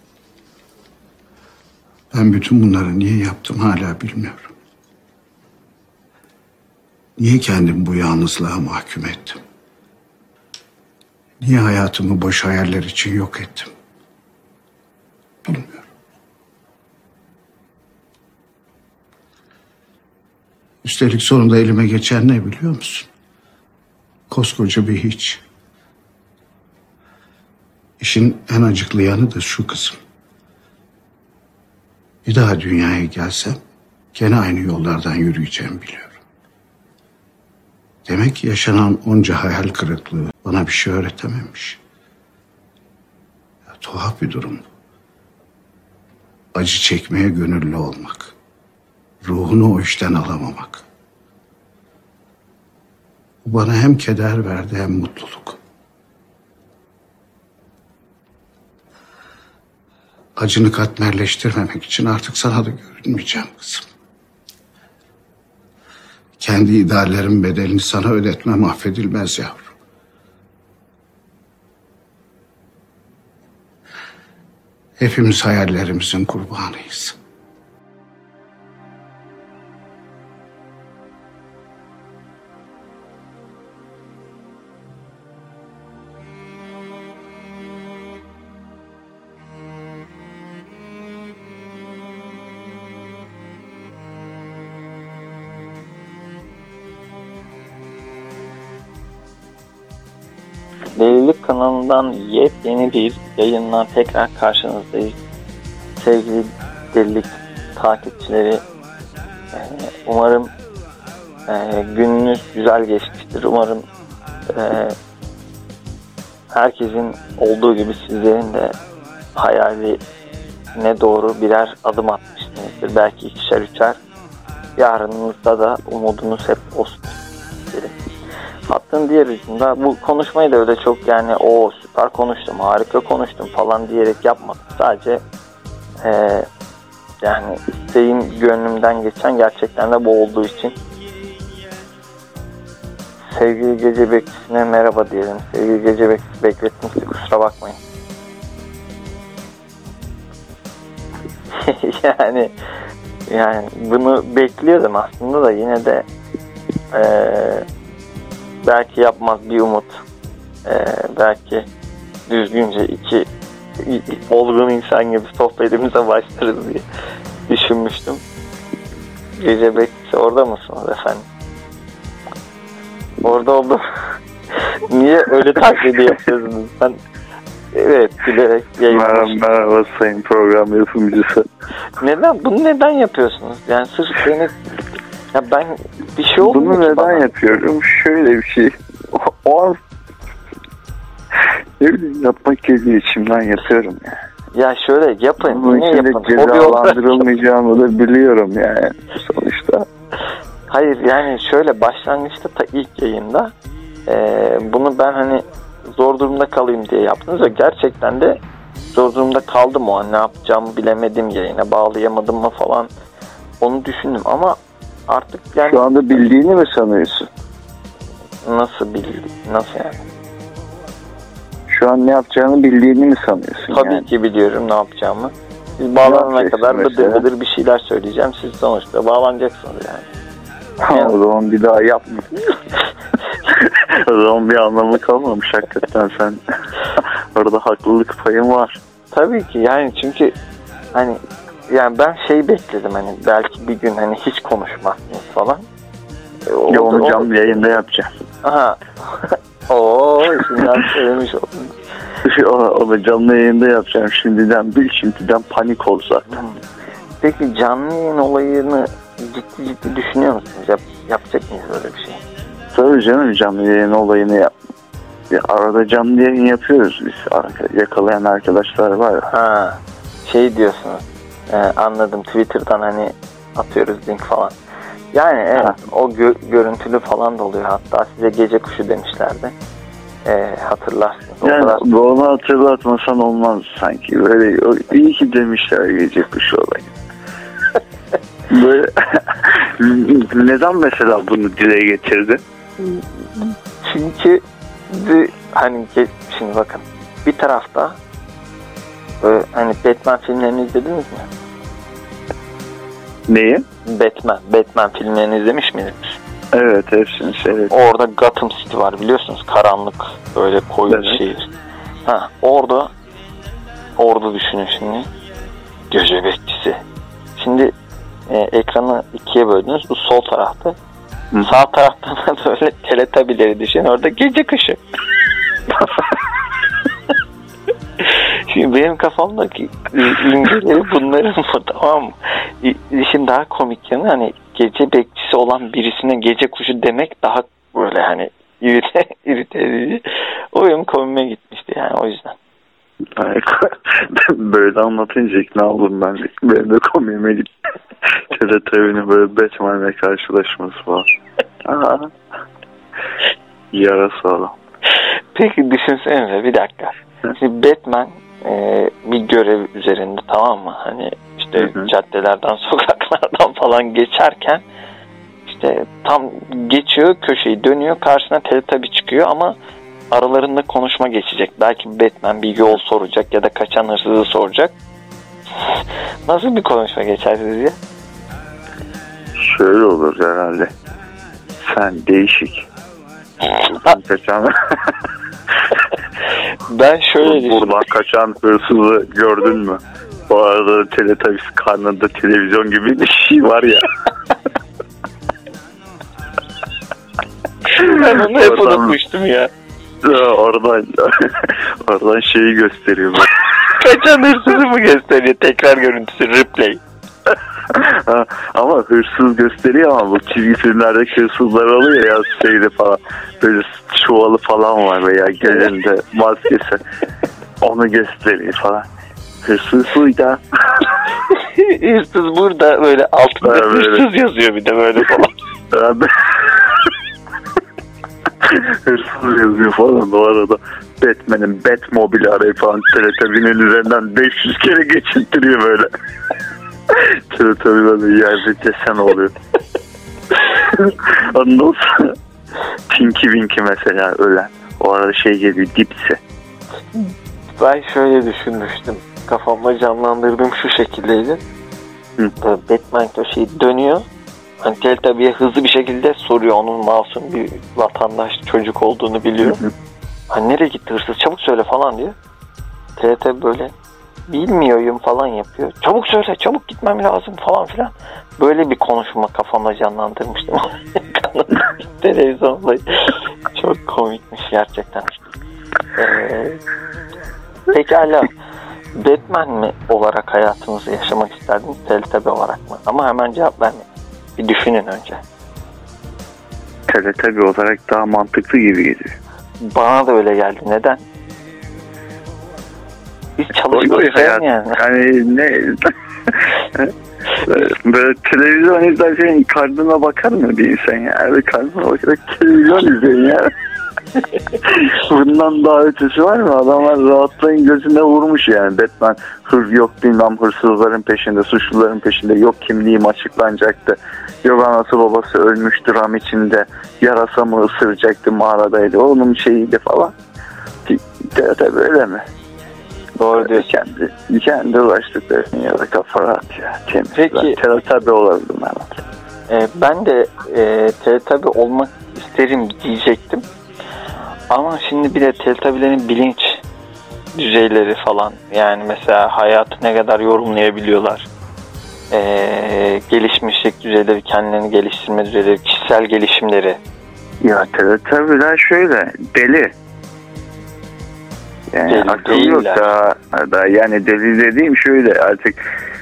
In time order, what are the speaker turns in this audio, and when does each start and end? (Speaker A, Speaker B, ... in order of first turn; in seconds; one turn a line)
Speaker A: 2.1-4.5
Speaker A: 7.2-9.4
Speaker A: 11.4-13.7
Speaker A: 15.4-15.9
Speaker A: 20.8-23.1
Speaker A: 24.3-25.4
Speaker A: 28.0-30.0
Speaker A: 32.2-33.6
Speaker A: 34.1-36.2
Speaker A: 38.0-41.8
Speaker A: 43.7-44.7
Speaker A: 46.5-48.3
Speaker A: 49.2-50.8
Speaker A: 53.4-55.6
Speaker A: 60.4-63.9
Speaker A: 66.4-69.7
Speaker A: 75.0-77.2
Speaker B: 101.0-105.2
Speaker B: 106.0-108.6
Speaker B: 109.5-110.5
Speaker B: 111.5-113.8
Speaker B: 114.5-115.0
Speaker B: 116.5-118.7
Speaker B: 119.3-120.0
Speaker B: 120.8-124.0
Speaker B: 124.8-127.2
Speaker B: 128.7-135.2
Speaker B: 136.0-136.5
Speaker B: 137.2-140.8
Speaker B: 143.3-147.8
Speaker B: 151.5-152.5
Speaker B: 153.3-156.1
Speaker B: 156.9-157.7
Speaker B: 158.6-160.0
Speaker B: 160.7-161.7
Speaker B: 162.3-163.3
Speaker B: 163.8-166.8
Speaker B: 167.5-168.2
Speaker B: 169.4-171.2
Speaker B: 173.2-173.8
Speaker B: 174.9-177.0
Speaker B: 177.7-179.4
Speaker C: 178.9-181.5
Speaker B: 182.0-184.6
Speaker B: 185.3-187.3
Speaker C: 186.4-189.8
Speaker C: 191.8-194.2
Speaker B: 194.5-197.3
Speaker C: 195.4-199.9
Speaker B: 200.7-203.5
Speaker B: 204.1-208.4
Speaker B: 208.9-212.9
Speaker B: 213.6-216.2
Speaker C: 215.7-217.3
Speaker B: 218.4-220.0
Speaker C: 221.7-224.1
Speaker B: 223.7-230.1
Speaker C: 226.0-227.2
Speaker C: 230.8-232.4
Speaker C: 233.5-236.4
Speaker C: 237.0-238.8
Speaker B: 239.1-240.3
Speaker B: 240.9-245.7
Speaker B: 246.5-247.5
Speaker C: 246.7-248.1
Speaker B: 248.4-251.8
Speaker C: 252.2-256.4
Speaker B: 257.2-262.2
Speaker C: 262.7-264.5
Speaker C: 265.3-269.3
Speaker B: 269.3-274.5
Speaker B: 275.1-279.5
Speaker B: 280.2-281.8
Speaker C: 281.4-286.9
Speaker C: 288.5-292.4
Speaker B: 292.8-298.0
Speaker B: 299.2-301.3
Speaker C: 303.3-303.6
Speaker B: 303.9-306.2
Speaker C: 306.5-307.7
Speaker B: 307.7-311.5
Speaker C: 310.9-311.2
Speaker B: 312.1-312.9
Speaker B: 314.0-315.1
Speaker B: 315.9-316.8
Speaker B: 317.4-317.8
Speaker B: 318.3-320.8
Speaker B: 321.4-324.8
Speaker B: 328.0-342.4
Speaker C: 343.1-347.5
Speaker C: 348.1-351.1
Speaker C: 351.6-352.1
Speaker C: 353.7-354.5
Speaker B: 355.4-364.6
Speaker C: 361.6-361.9
Speaker B: 365.5-369.5
Speaker B: 370.1-374.7
Speaker B: 375.6-377.8
Speaker C: 379.4-380.7
Speaker C: 381.6-382.7
Speaker C: 383.6-384.9
Speaker B: 386.6-387.8
Speaker C: 387.2-393.9
Speaker B: 397.7-399.5
Speaker C: 397.8-398.9
Speaker C: 400.0-403.6
Speaker B: 403.8-406.8
Speaker C: 407.7-416.8
Speaker C: 417.6-418.9
Speaker C: 419.4-421.0
Speaker B: 421.3-425.3
Speaker C: 423.4-424.1
Speaker C: 425.7-426.9
Speaker C: 428.4-435.9
Speaker C: 436.9-439.3
Speaker C: 440.4-442.1
Speaker C: 442.9-446.2
Speaker B: 446.9-451.4
Speaker B: 452.4-454.1
Speaker B: 454.6-459.6
Speaker C: 459.4-459.7
Speaker B: 460.3-462.1
Speaker B: 463.0-463.7
Speaker B: 464.3-475.1
Speaker B: 476.0-476.6
Speaker B: 477.7-478.3
Speaker B: 479.0-483.9
Speaker B: 484.4-485.2
Speaker C: 486.9-489.1
Speaker B: 489.6-491.0
Speaker B: 493.4-494.8
Speaker C: 493.7-496.9
Speaker C: 497.4-503.5
Speaker C: 504.6-520.1
Speaker C: 520.9-522.2
Speaker B: 523.2-523.7
Speaker C: 523.4-529.0
Speaker B: 527.1-527.6
Speaker B: 529.5-533.4
Speaker B: 534.5-536.6
Speaker B: 537.4-541.3
Speaker B: 542.1-546.8
Speaker C: 547.4-549.7
Speaker C: 551.7-555.6
Speaker B: 551.9-552.9